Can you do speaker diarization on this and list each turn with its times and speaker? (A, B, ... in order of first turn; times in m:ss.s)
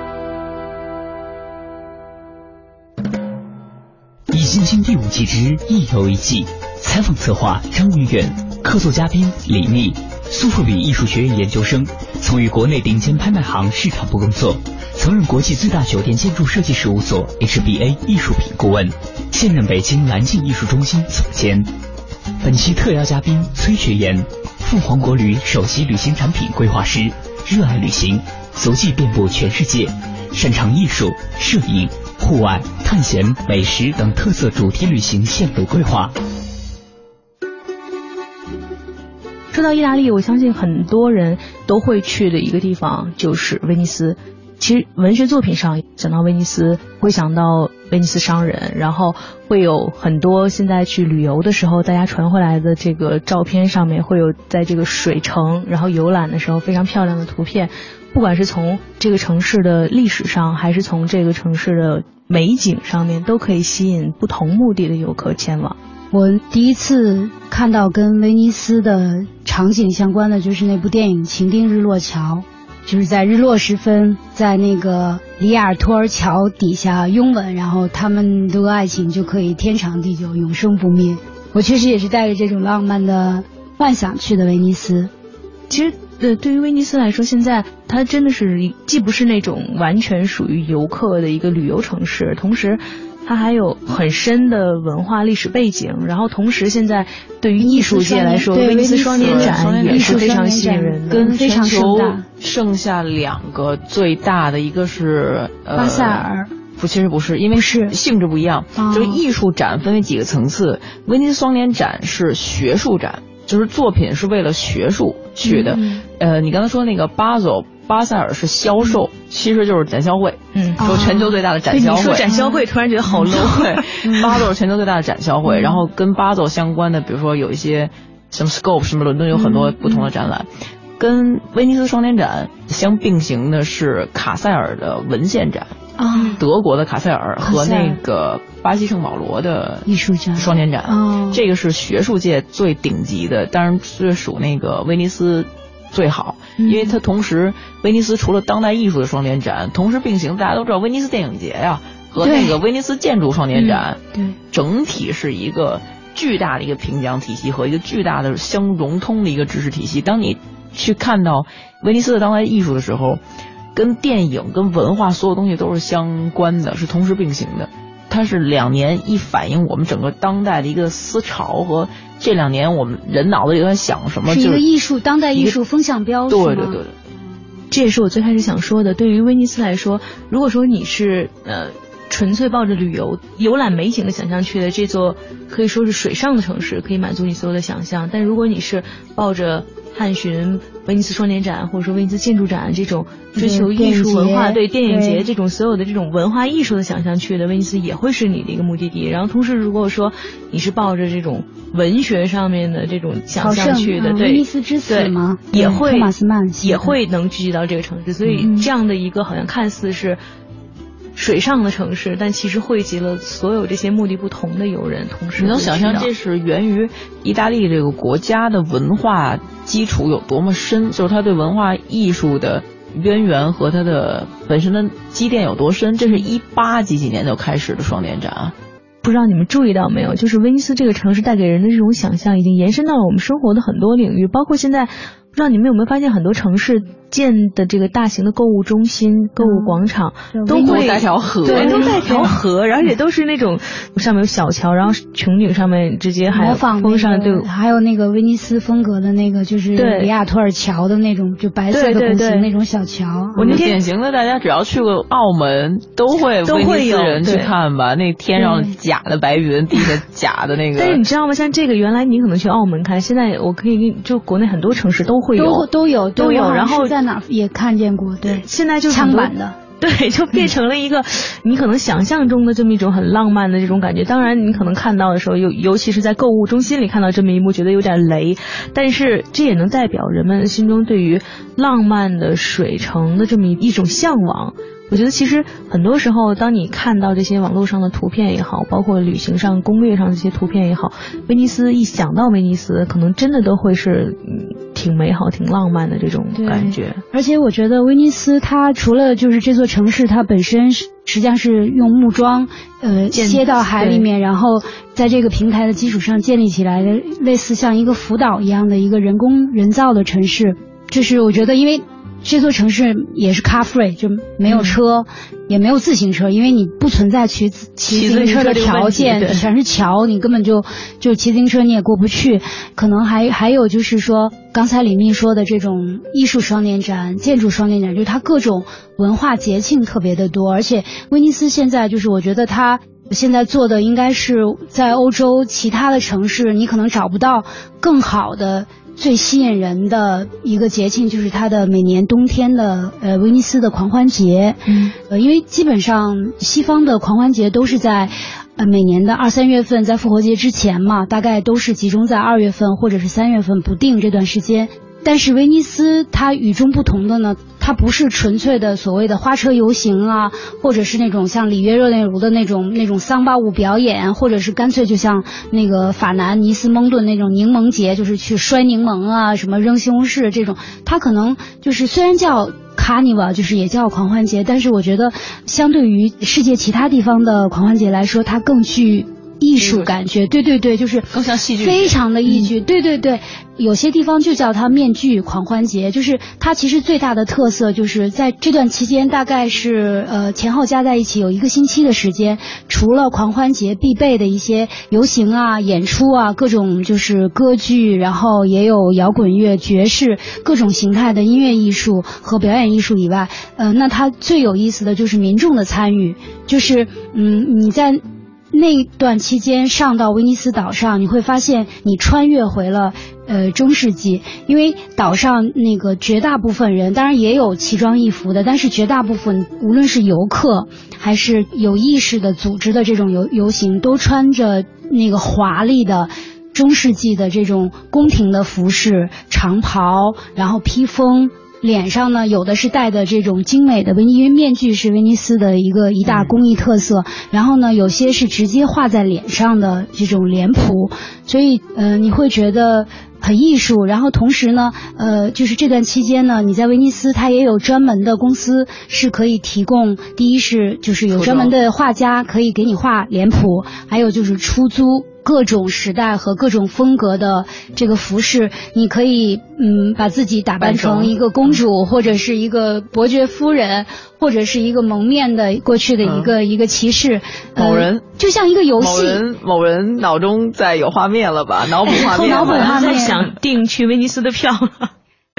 0:04.3-0:21.7 A
0:22.4-0:36.2 A
0:39.5-1:05.8 B
1:06.1-1:25.1 C
1:25.7-1:41.3 B
1:37.6-1:42.2 C
1:39.2-1:40.4 D
1:41.1-1:46.2 D
1:45.7-1:46.5 C
1:46.8-2:02.4 D
1:47.5-1:47.9 C
1:48.8-1:49.2 C
1:55.4-1:56.0 C
2:00.5-2:04.4 B
2:00.8-2:01.3 C
2:02.3-2:02.6 C
2:03.1-2:10.5 D
2:05.5-2:05.7 C
2:09.3-2:10.0 C
2:11.0-2:15.7 D
2:16.0-2:16.4 C
2:16.4-2:43.2 D
2:17.4-2:18.0 C
2:19.8-2:21.4 C
2:26.6-2:26.9 B
2:32.2-2:32.6 C
2:43.7-2:54.6 D
2:54.3-2:56.8 C
2:56.3-2:57.0 D
2:57.7-3:30.2 B
3:13.4-3:15.2 C
3:23.4-3:27.0 C
3:28.4-3:28.7 C
3:31.2-3:36.1 B
3:35.4-3:48.5 D
3:49.0-4:07.5 B
3:59.4-4:02.3 C
4:00.6-4:02.1 D
4:06.3-4:13.6 C
4:09.8-4:10.1 B
4:11.7-4:12.5 B
4:13.4-4:13.8 B
4:13.4-4:21.0 D
4:16.4-4:17.5 B
4:20.8-4:26.9 B
4:25.3-4:29.6 C
4:28.2-4:57.0 B
4:56.3-7:49.2 C
5:03.1-5:04.1 B
5:14.5-5:14.8 B
5:17.9-5:19.4 B
5:44.7-5:44.9 B
6:19.6-6:19.9 D
6:21.1-6:22.0 D
7:16.0-7:16.3 D
7:31.1-7:31.6 D
7:40.6-7:41.6 D
7:46.0-7:46.3 D
7:47.6-7:48.0 D
7:48.8-7:53.2 D
7:51.9-7:54.9 B
7:51.9-7:53.2 C